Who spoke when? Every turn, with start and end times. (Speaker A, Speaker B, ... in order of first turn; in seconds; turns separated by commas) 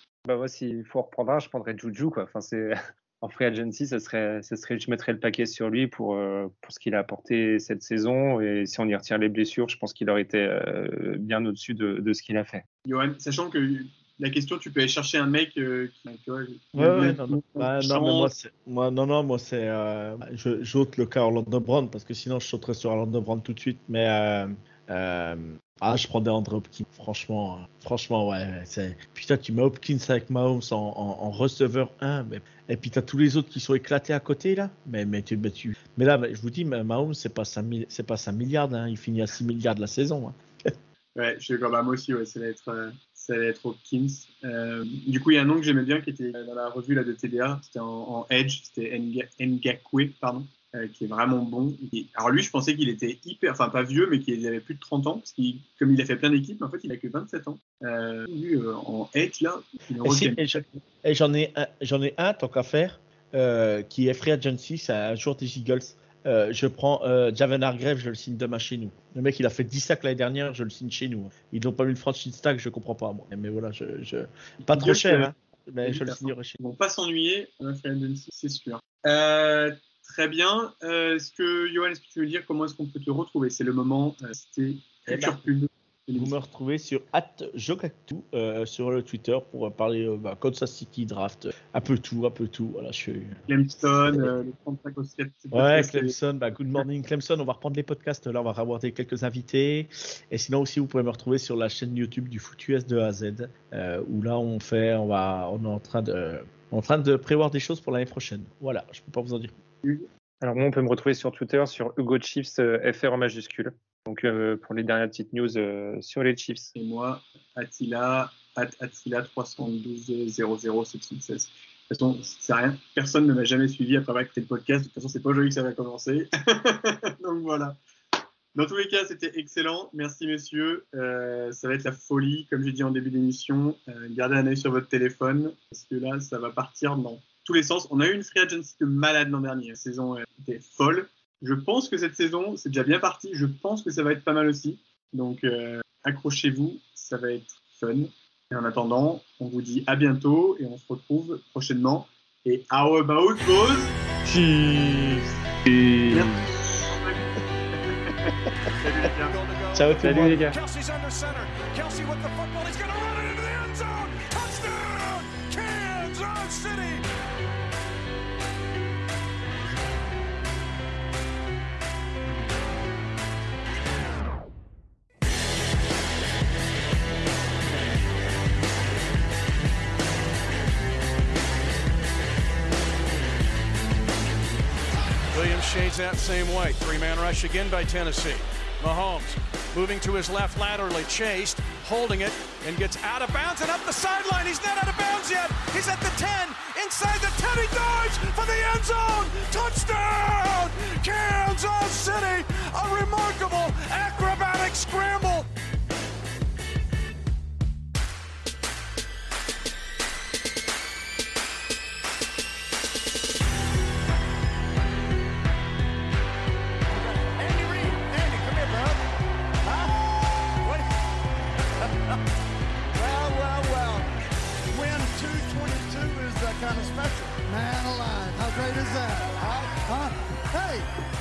Speaker A: 0.2-12.6, Speaker B: 12.8-18.3, Speaker C: 16.7-40.7, Speaker B: 41.1-60.7, Speaker C: 60.0-76.6, Speaker B: 74.6-75.3, Speaker B: 75.8-86.3, Speaker C: 85.1-85.4, Speaker C: 86.2-94.3, Speaker B: 93.5-96.1, Speaker C: 95.5-109.5, Speaker B: 109.8-110.1, Speaker A: 110.4-116.7, Speaker B: 116.8-127.8, Speaker B: 128.5-153.9, Speaker C: 154.2-155.2, Speaker B: 156.1-159.3, Speaker D: 159.2-167.0, Speaker C: 159.7-160.4, Speaker A: 160.0-160.6, Speaker D: 185.3-205.5, Speaker E: 216.9-219.0, Speaker E: 219.6-220.9, Speaker E: 221.8-222.2, Speaker E: 222.9-224.1, Speaker E: 224.7-230.9